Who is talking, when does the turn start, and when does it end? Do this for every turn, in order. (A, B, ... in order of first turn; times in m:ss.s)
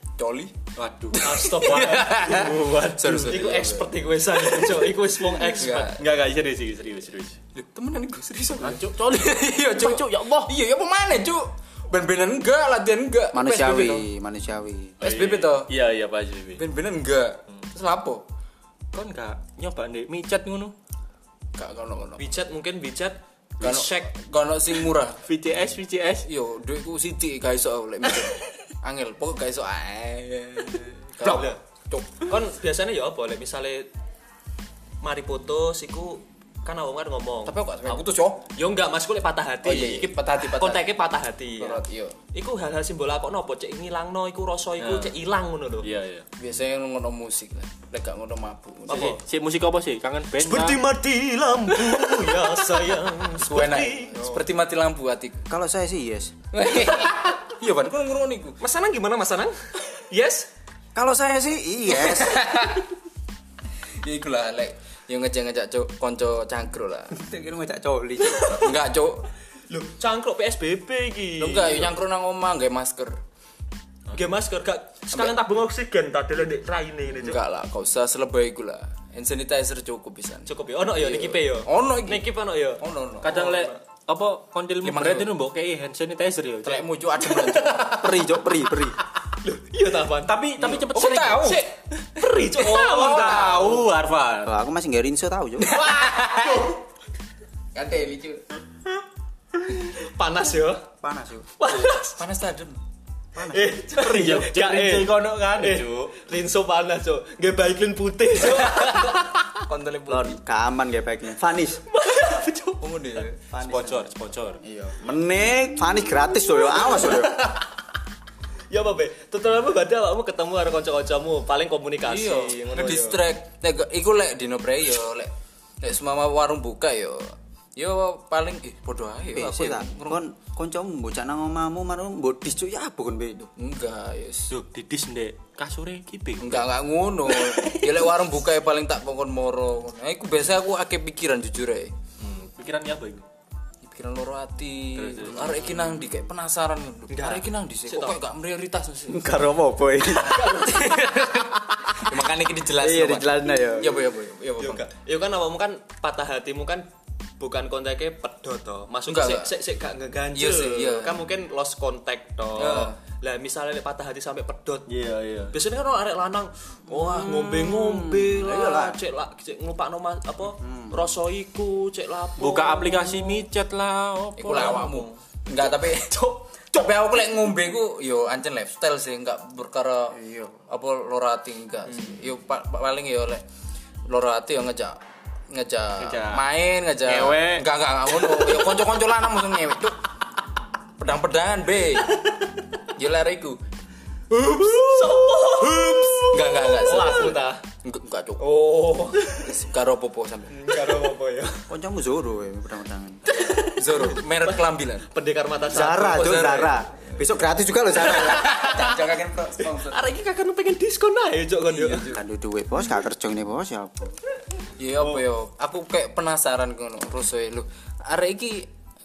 0:00.2-0:00.6 A
0:00.8-0:03.5 B
0:01.1-0:03.9 A
0:01.2-0:02.4 C
0:03.1-0:06.0 C
0:05.4-0:06.0 A
0:06.0-0:07.4 B
0:07.5-0:14.1 A
0:08.6-0:10.5 B
0:13.3-0:15.0 D
0:15.0-0:16.6 B
0:15.0-0:15.7 A
0:16.6-0:18.2 A
0:18.9-0:20.7 B
0:21.6-0:22.3 A
0:22.2-0:24.1 C
0:23.6-0:25.3 A
0:25.2-0:26.3 B
0:26.2-0:32.3 A
0:31.2-0:31.6 C
0:32.2-0:33.9 C
0:35.0-0:37.9 C
0:37.4-0:38.4 A
0:38.6-0:41.8 C
0:39.6-0:40.9 A
0:41.6-0:42.2 A
0:42.3-0:45.9 C
0:44.8-0:45.2 B
0:45.8-0:46.3 B
0:46.4-0:49.2 A
0:48.9-0:49.2 C
0:48.9-0:50.8 B
0:50.4-0:54.4 C
0:53.3-0:55.4 A
0:55.5-0:56.4 D
0:56.5-0:58.6 A
0:58.6-1:00.5 C
1:00.9-1:02.7 D
1:01.9-1:02.9 A
1:03.9-1:07.2 A
1:07.1-1:08.8 D
1:08.3-1:09.3 A
1:09.7-1:11.9 C
1:11.4-1:13.2 A
1:14.1-1:17.4 C
1:17.1-1:23.5 A
1:20.5-1:23.8 C
1:23.2-1:27.9 B
1:24.8-1:25.3 A
1:26.6-1:28.1 A
1:27.7-1:29.0 D
1:29.4-1:30.4 C
1:30.2-1:31.6 B
1:30.6-1:31.8 A
1:32.0-1:33.8 C
1:32.6-1:34.5 B
1:32.9-1:33.8 A
1:34.4-1:35.8 D
1:35.6-1:36.7 A
1:35.8-1:36.8 C
1:37.7-1:38.4 A
1:39.7-1:40.9 C
1:41.0-1:41.5 D
1:41.6-1:42.2 C
1:41.9-1:42.8 A
1:43.4-1:43.8 D
1:43.5-1:49.4 C
1:44.0-1:46.1 B
1:49.6-1:50.4 A
1:50.1-1:51.8 D
1:51.9-1:53.3 C
1:52.8-1:53.4 A
1:53.5-1:54.1 D
1:53.6-1:54.6 B
1:54.7-1:57.5 D
1:56.9-1:57.6 C
1:58.7-2:03.2 C
2:02.0-2:10.2 A
2:09.4-2:13.5 D
2:13.6-2:14.5 A
2:14.5-2:16.7 B
2:16.4-2:21.9 A
2:17.4-2:17.9 B
2:22.2-2:23.2 B
2:23.8-2:29.4 A
2:25.0-2:25.9 B
2:27.1-2:28.1 C
2:29.1-2:32.2 D
2:30.1-2:31.3 C
2:32.0-2:34.8 A
2:32.8-2:34.0 D
2:34.6-2:36.9 C
2:37.4-2:44.9 C
2:39.1-2:39.6 A
2:40.3-2:41.2 A
2:42.5-2:43.0 A
2:44.9-2:45.5 B
2:45.5-2:53.4 C
2:46.9-2:49.0 D
2:50.6-2:51.0 D
2:52.4-2:55.1 B
2:54.4-3:03.4 A
3:00.1-3:00.6 D
3:01.9-3:02.2 C
3:04.1-3:10.0 A
3:06.0-3:06.4 B
3:07.0-3:08.8 B
3:11.0-3:12.2 A
3:13.0-3:13.6 A
3:14.3-3:17.6 C
3:16.2-3:18.4 A
3:18.4-3:19.6 C
3:19.4-3:20.7 A
3:20.5-3:21.7 C
3:21.7-3:23.2 D
3:23.3-3:26.7 C
3:23.5-3:25.1 A
3:25.7-3:28.6 D
3:25.7-3:27.2 A
3:28.0-3:30.0 A
3:28.0-3:29.0 C
3:29.6-3:32.1 C
3:31.7-3:32.2 A
3:32.1-3:34.2 D
3:34.8-3:38.7 A